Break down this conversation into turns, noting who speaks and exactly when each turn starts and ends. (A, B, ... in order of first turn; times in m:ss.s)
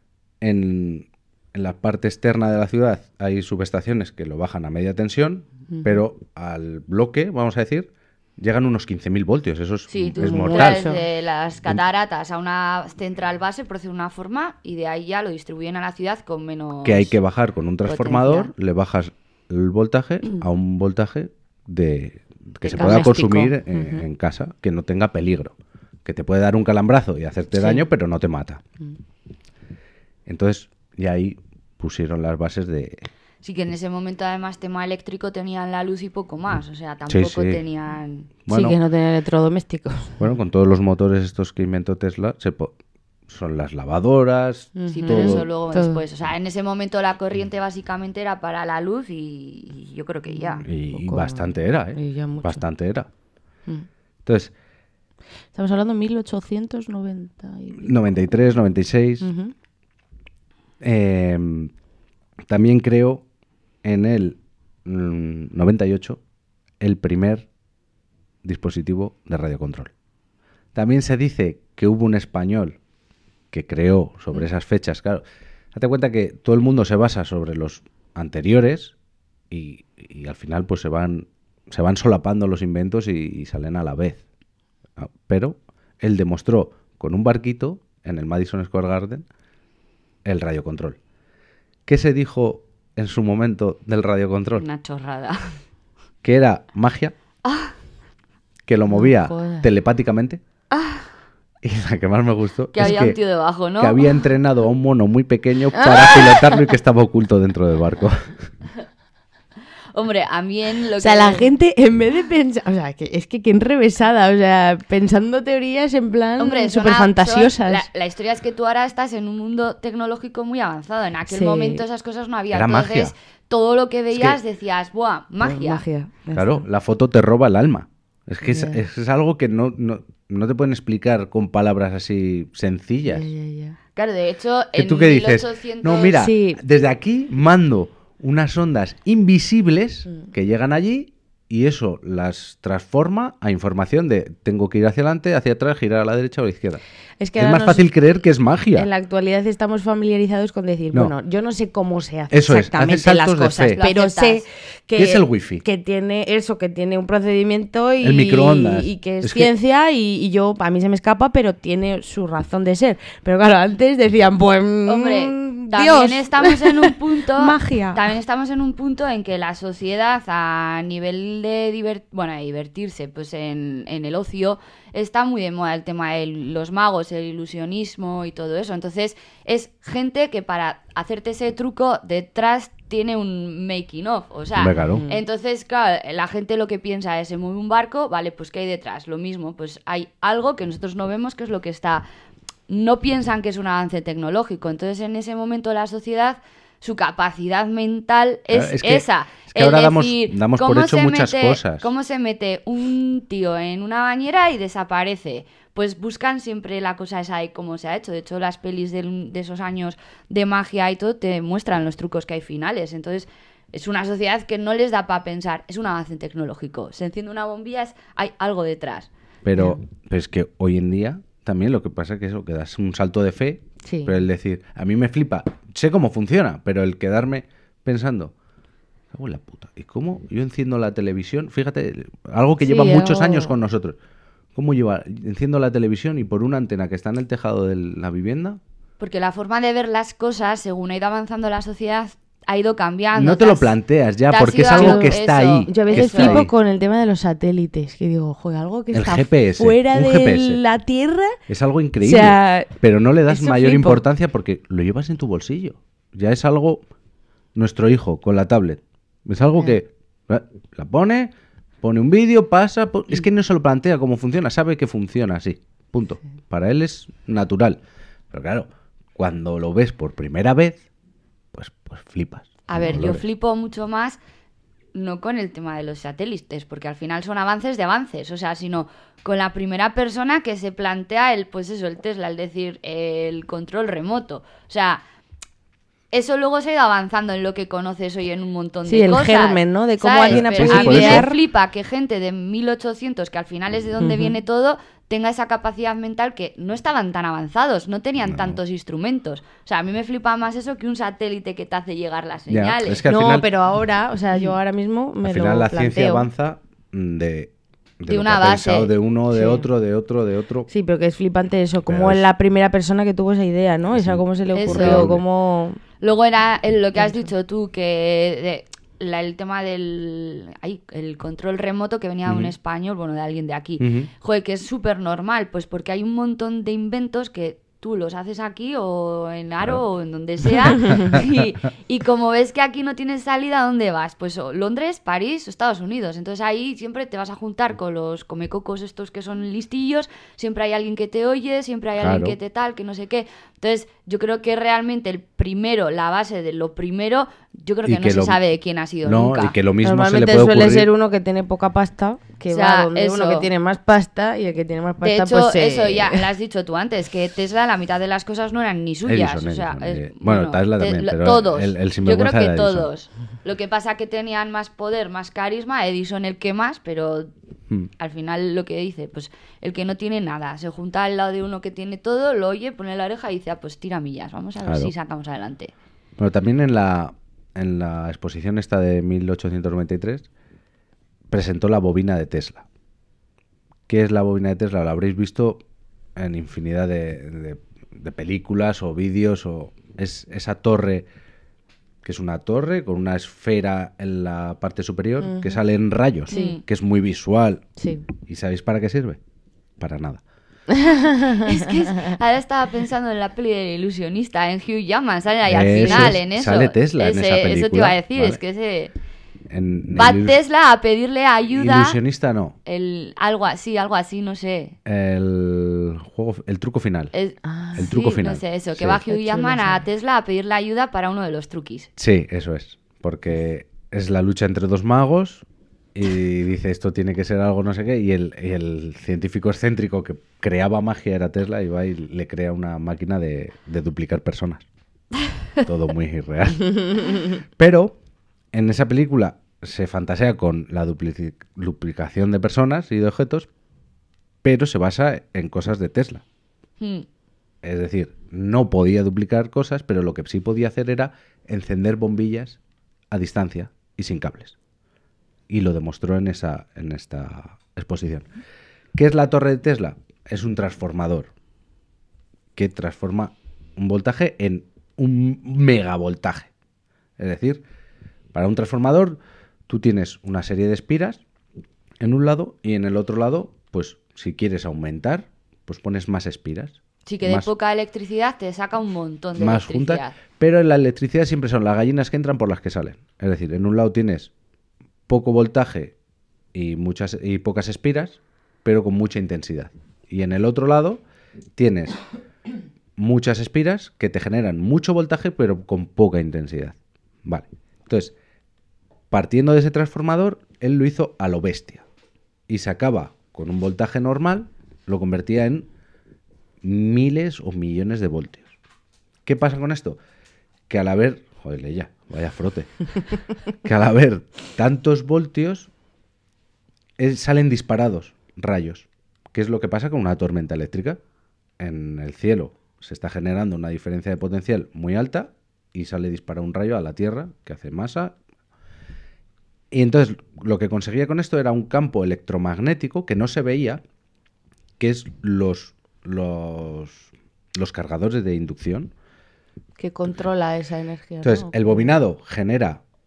0:00.4-0:10.9 A
0:05.7-0:06.0 B
0:09.9-0:17.1 C
0:10.2-0:11.0 B
0:16.8-0:28.6 A
0:17.8-0:18.5 C
0:22.6-0:23.5 C
0:22.8-0:24.0 B
0:27.5-0:27.8 B
0:30.2-0:33.1 A
0:33.4-0:38.4 C
0:37.1-0:37.6 A
0:38.4-0:38.8 A
0:38.5-0:40.2 B
0:40.2-0:42.7 A
0:43.3-0:45.5 A
0:44.7-0:46.0 B
0:44.9-0:50.7 C
0:50.3-0:52.6 B
0:50.6-0:53.1 A
0:54.2-0:54.5 A
0:55.5-0:58.0 B
0:57.8-0:59.3 A
0:59.2-0:59.5 B
1:00.8-1:01.7 A
1:02.5-1:03.2 A
1:03.8-1:06.2 A
1:06.8-1:07.5 A
1:08.4-1:09.9 A
1:10.7-1:12.8 A
1:13.5-1:15.2 A
1:15.7-1:18.9 A
1:19.5-1:24.2 A
1:25.0-1:29.2 A
1:30.2-1:31.0 A
1:31.8-1:34.6 A
1:34.6-1:35.6 C
1:36.2-1:37.1 A
1:37.4-1:37.7 C
1:38.6-1:40.4 A
1:38.9-1:39.7 B
1:40.7-1:41.1 C
1:41.6-1:43.2 A
1:42.7-1:44.2 C
1:43.8-1:48.3 A
1:45.7-1:46.6 B
1:49.9-1:51.5 C
1:51.0-1:57.9 B
1:56.4-2:05.8 C
2:01.3-2:01.8 B
2:02.5-2:03.1 A
2:04.1-2:04.4 A
2:05.4-2:06.7 B
2:06.3-2:13.3 A
2:08.4-2:08.8 B
2:13.0-2:13.8 B
2:14.0-2:16.2 C
2:14.8-2:26.8 A
2:16.1-2:16.6 B
2:27.2-2:27.8 B
2:27.4-2:28.9 A
2:28.7-2:48.0 B
2:32.3-2:33.8 A
2:33.8-2:34.4 C
2:35.0-2:35.6 A
2:38.0-2:39.5 A
2:44.8-3:12.0 C
3:04.6-3:05.0 A
3:04.9-3:05.2 B
3:12.7-3:39.1 C
3:18.5-3:21.9 A
3:39.4-3:48.3 A
3:43.8-3:44.2 B
3:49.1-3:54.0 A
3:52.6-3:53.6 B
3:54.5-3:58.6 A
3:59.0-4:03.7 C
4:03.1-4:06.5 A
4:04.3-4:06.4 C
4:04.7-4:05.2 B
4:05.7-4:11.4 B
4:08.9-4:10.6 A
4:11.5-4:16.8 A
4:12.0-4:14.0 B
4:17.5-4:21.3 A
4:21.8-4:27.8 A
4:28.3-4:30.8 A
4:31.5-4:33.2 A
4:32.7-4:34.2 C
4:34.9-4:45.0 C
4:46.1-5:03.0 C
4:48.8-4:51.4 B
4:50.3-4:51.3 A
4:54.0-4:54.4 B
4:58.3-4:58.6 A
5:02.5-5:03.5 A
5:03.0-5:06.3 B
5:05.2-5:10.7 A
5:08.1-5:08.9 C
5:09.3-5:09.7 B
5:10.7-5:15.8 B
5:11.8-5:12.3 A
5:13.9-5:15.2 A
5:14.5-5:15.1 C
5:16.0-5:49.6 C
5:17.0-5:17.3 B
5:22.2-5:22.5 A
5:23.8-5:24.1 A
5:30.9-5:31.2 A
5:42.0-5:42.4 A
5:47.8-5:48.4 A
5:49.0-5:50.9 A
5:49.8-5:56.3 B
5:52.5-5:53.5 C
5:55.0-6:07.3 C
5:59.0-6:02.9 A
6:08.0-6:15.7 C
6:14.6-6:14.9 A
6:16.2-6:20.3 A
6:21.3-6:22.6 A
6:23.9-6:25.6 A
6:26.2-6:31.1 A
6:32.0-6:37.6 A
6:35.2-6:35.6 B
6:36.3-6:36.6 C
6:36.3-6:36.6 B
6:37.8-6:38.0 B
6:38.2-6:39.2 A
6:39.8-6:40.2 A
6:40.7-6:42.1 B
6:41.4-6:48.9 C
6:45.5-6:48.4 A
6:45.8-6:46.1 B
6:49.5-6:50.4 A
6:49.9-6:52.0 C
6:51.5-6:52.5 A
6:52.6-6:54.8 C
6:54.8-6:57.1 A
6:57.1-7:01.9 C
6:57.4-6:57.9 B
6:57.8-6:59.0 A
6:59.1-6:59.8 B
7:02.0-7:14.6 A
7:15.6-7:18.0 A
7:18.5-7:23.5 A
7:24.4-7:26.2 A
7:26.8-7:27.0 C
7:27.6-7:32.6 A
7:33.1-7:34.6 A
7:35.5-7:38.3 A
7:38.9-7:41.3 A
7:42.5-7:46.5 A
7:47.2-7:47.6 A
7:48.3-7:51.2 A
7:52.0-7:57.5 A
7:57.0-8:00.1 C
7:59.4-8:04.3 A
8:05.1-8:05.9 A
8:06.5-8:11.0 A
8:11.6-8:12.0 A
8:13.0-8:18.1 A
8:19.1-8:21.8 A
8:22.5-8:25.7 A
8:26.6-8:28.5 A
8:29.2-8:30.0 A
8:30.7-8:32.8 A
8:33.6-8:35.7 A
8:37.0-8:41.0 A
8:41.6-8:48.1 A
8:49.7-8:53.8 A
8:54.8-8:58.9 A
8:59.8-9:02.0 B
9:01.2-9:02.8 A